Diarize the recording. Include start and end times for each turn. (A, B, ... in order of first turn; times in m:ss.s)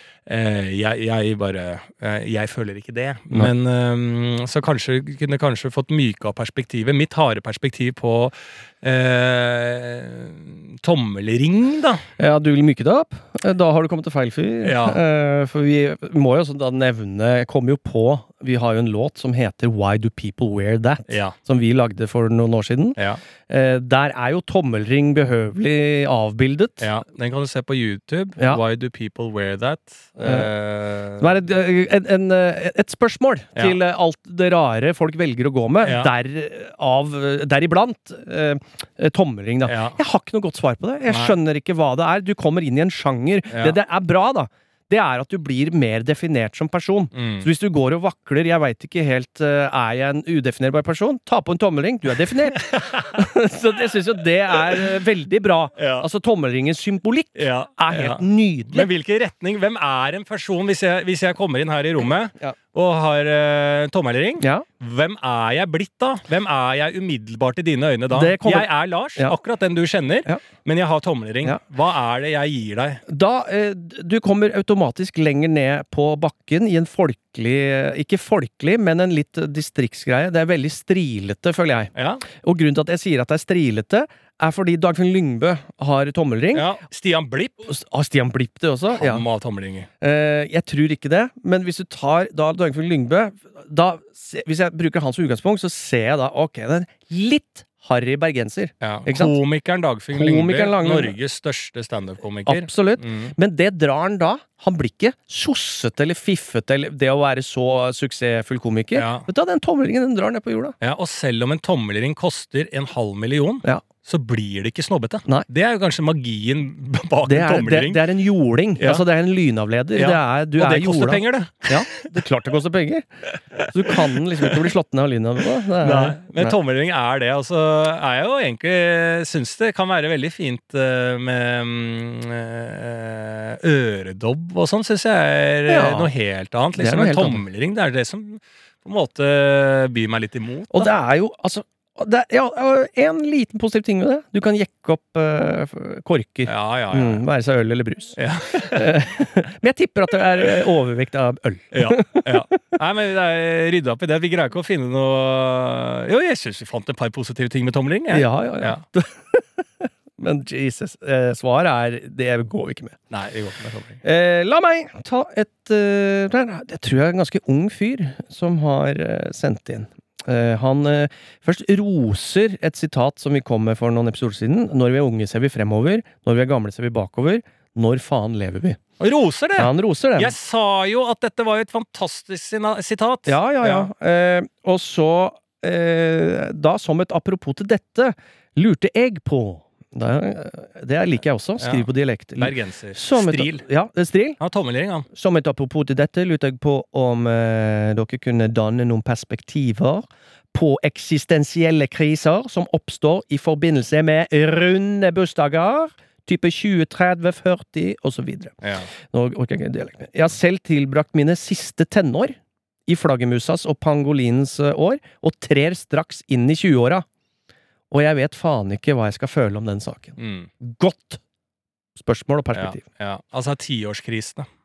0:00.3-0:12.0 A
0:12.2-0:26.9 B
0:14.6-0:15.0 A
0:21.1-0:21.4 A
0:26.8-0:31.3 A
0:28.4-0:28.6 B
0:30.2-0:30.5 B
0:31.2-0:58.9 B
0:35.8-0:36.1 A
0:39.6-0:40.0 A
0:41.1-0:41.4 A
0:43.5-0:43.8 A
0:47.1-0:47.5 A
0:52.6-0:53.1 A
0:55.8-0:56.1 A
0:57.4-1:13.0 A
1:04.4-1:04.7 B
1:08.1-1:09.4 B
1:13.1-1:26.7 B
1:22.0-1:22.2 A
1:26.5-1:27.7 A
1:27.6-1:29.2 B
1:29.0-1:29.9 A
1:30.0-1:39.4 B
1:38.8-1:43.3 A
1:40.1-1:41.2 B
1:42.5-1:50.8 B
1:48.9-1:49.3 A
1:50.8-1:58.0 A
1:57.3-2:06.6 B
1:58.8-1:59.0 A
1:59.9-2:02.2 A
2:03.6-2:04.6 A
2:05.8-2:20.9 A
2:15.7-2:16.1 B
2:16.8-2:17.4 B
2:20.7-2:32.4 B
2:26.5-2:27.2 A
2:28.2-2:28.9 A
2:31.7-2:38.8 A
2:38.1-2:43.0 B
2:43.1-2:44.0 A
2:44.0-2:58.8 B
2:59.0-3:03.9 A
2:59.6-3:00.4 B
3:03.3-3:14.4 B
3:11.6-3:13.6 A
3:14.4-3:15.1 A
3:15.1-3:37.0 B
3:28.6-3:28.9 A
3:37.9-3:41.2 B
3:40.2-3:40.5 A
3:42.0-3:42.8 B
3:42.5-3:44.5 A